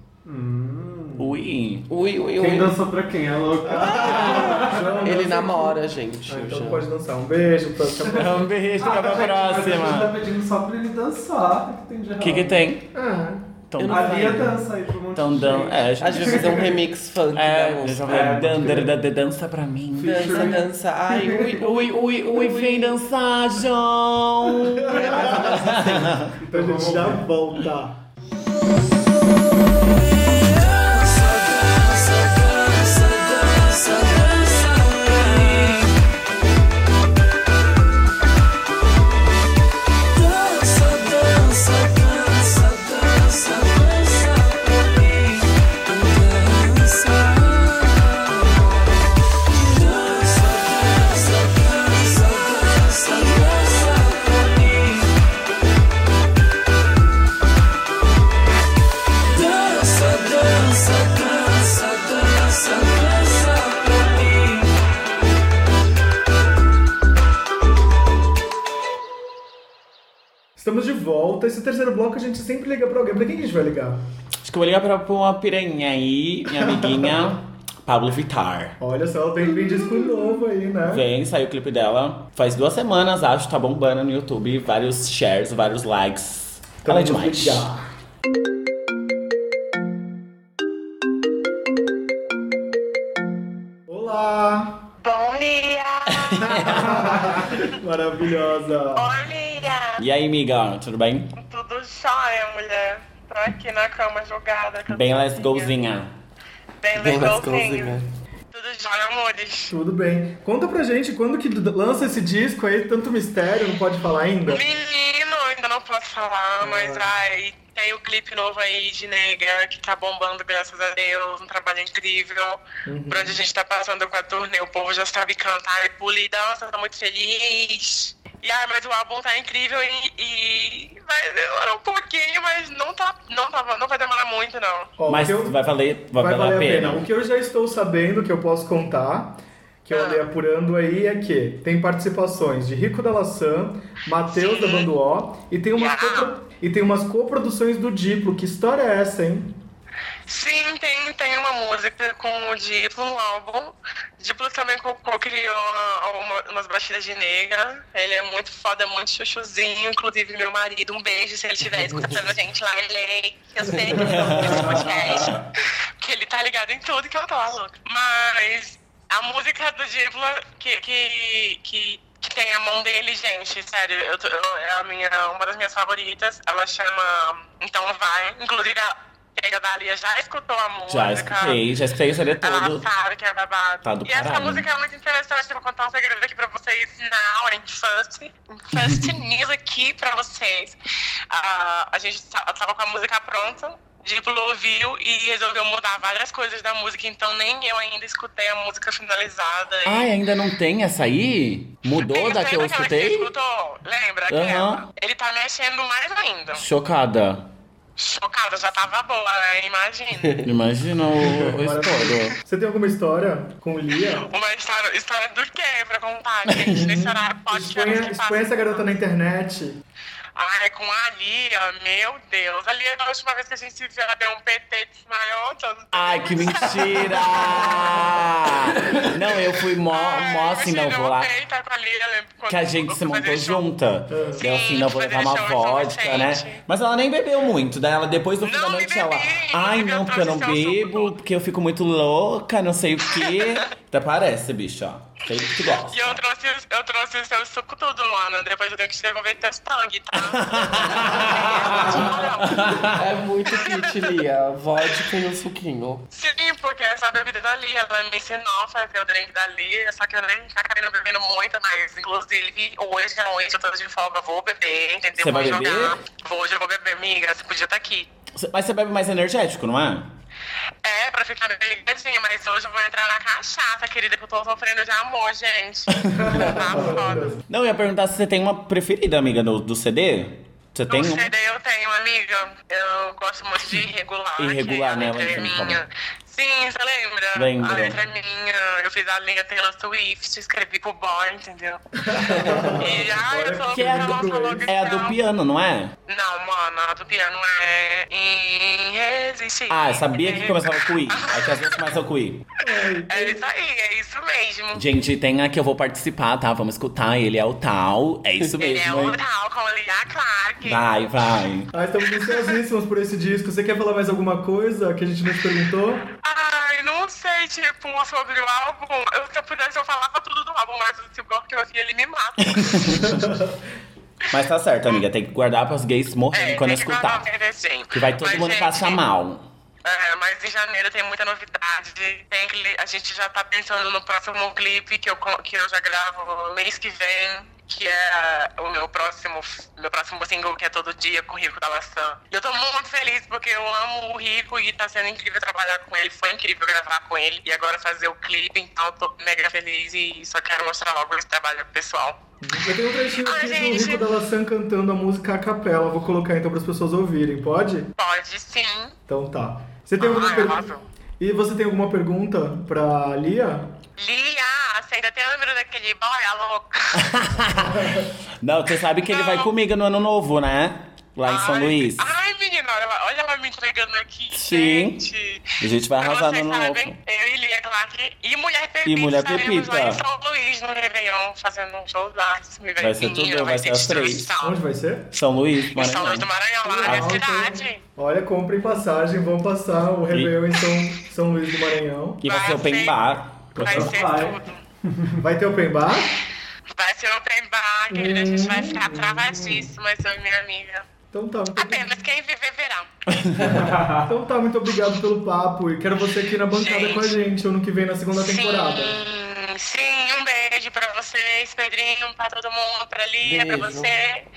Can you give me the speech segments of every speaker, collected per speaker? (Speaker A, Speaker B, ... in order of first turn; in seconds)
Speaker A: 0.2-1.4, 2.4-5.0, 8.8-12.6, 13.8-16.8, 18.0-19.0, 20.0-21.7, 24.9-27.2, 164.0-165.3, 393.6-395.2, 403.4-404.1
Speaker B: 1.2-1.9, 3.9-4.6, 8.1-10.1, 12.2-12.9, 13.7-14.5, 15.1-16.8, 17.3-20.6, 21.6-26.3, 32.8-33.1, 35.2-35.9, 40.6-42.6, 49.8-51.3, 74.4-78.8, 80.9-87.7, 96.2-97.0, 100.0-101.3, 104.9-106.1, 135.1-137.0, 164.3-165.3, 180.9-182.8, 183.8-184.7, 199.8-203.3, 204.3-204.8, 206.5-207.5, 210.4-212.4, 225.9-231.3, 232.5-246.2, 250.2-253.0, 265.2-266.0, 268.3-270.1, 276.0-276.5, 277.5-281.3, 284.4-285.8, 287.3-288.0, 293.7-295.9, 299.7-302.4, 304.7-309.2, 310.6-311.7, 322.5-323.1, 324.3-327.2, 327.9-329.4, 366.9-372.1, 374.3-375.0, 375.6-377.0, 378.8-380.0, 382.8-384.3, 385.1-386.3, 386.8-387.2, 390.1-390.4, 392.2-393.8, 403.1-403.6
Speaker C: 1.9-2.7, 4.1-6.8, 13.8-14.5, 16.0-18.2, 20.0-23.0, 24.9-26.1, 107.0-108.1, 116.6-117.0, 164.0-164.5, 252.8-256.0, 413.2-413.9
Speaker D: 3.6-8.5, 12.9-13.5, 26.5-28.0, 70.6-74.0, 76.5-77.3, 78.8-81.0, 86.8-87.9, 93.9-94.8, 96.4-99.1, 109.7-114.6, 122.8-123.4, 135.0-135.6, 136.2-149.5, 211.4-214.3, 216.9-219.8, 234.1-234.4, 276.1-277.4, 292.0-294.7, 302.6-303.4, 311.7-316.1, 323.0-323.5, 352.4-357.9, 359.1-363.7, 367.6-368.1, 384.4-385.1, 386.6-392.2, 395.2-396.2, 397.9-399.7, 401.1-401.9, 403.5-408.9
Speaker E: 95.0-97.0, 98.9-100.0, 101.3-105.8, 106.8-108.0, 108.5-109.7, 114.5-134.9, 139.9-140.2, 144.3-144.9, 145.8-146.3, 150.3-165.4, 166.0-181.6, 182.4-190.8, 191.3-200.1, 201.9-206.6, 207.9-210.5, 214.0-218.9, 220.3-228.1, 229.9-233.7, 234.3-236.6, 238.4-241.1, 243.1-243.7, 245.3-252.8, 253.4-254.1, 256.1-268.1, 270.8-277.4, 280.9-295.2, 296.1-301.9, 303.0-304.9, 308.5-310.8, 312.1-312.6, 316.2-323.2, 326.3-329.0, 329.8-352.2, 353.2-354.1, 358.0-358.9, 360.0-360.8, 364.0-367.0, 369.0-369.5, 371.2-384.6, 385.6-387.8, 392.2-393.0, 393.6-394.6, 396.7-400.8, 401.5-402.9, 406.4-407.1, 408.1-414.2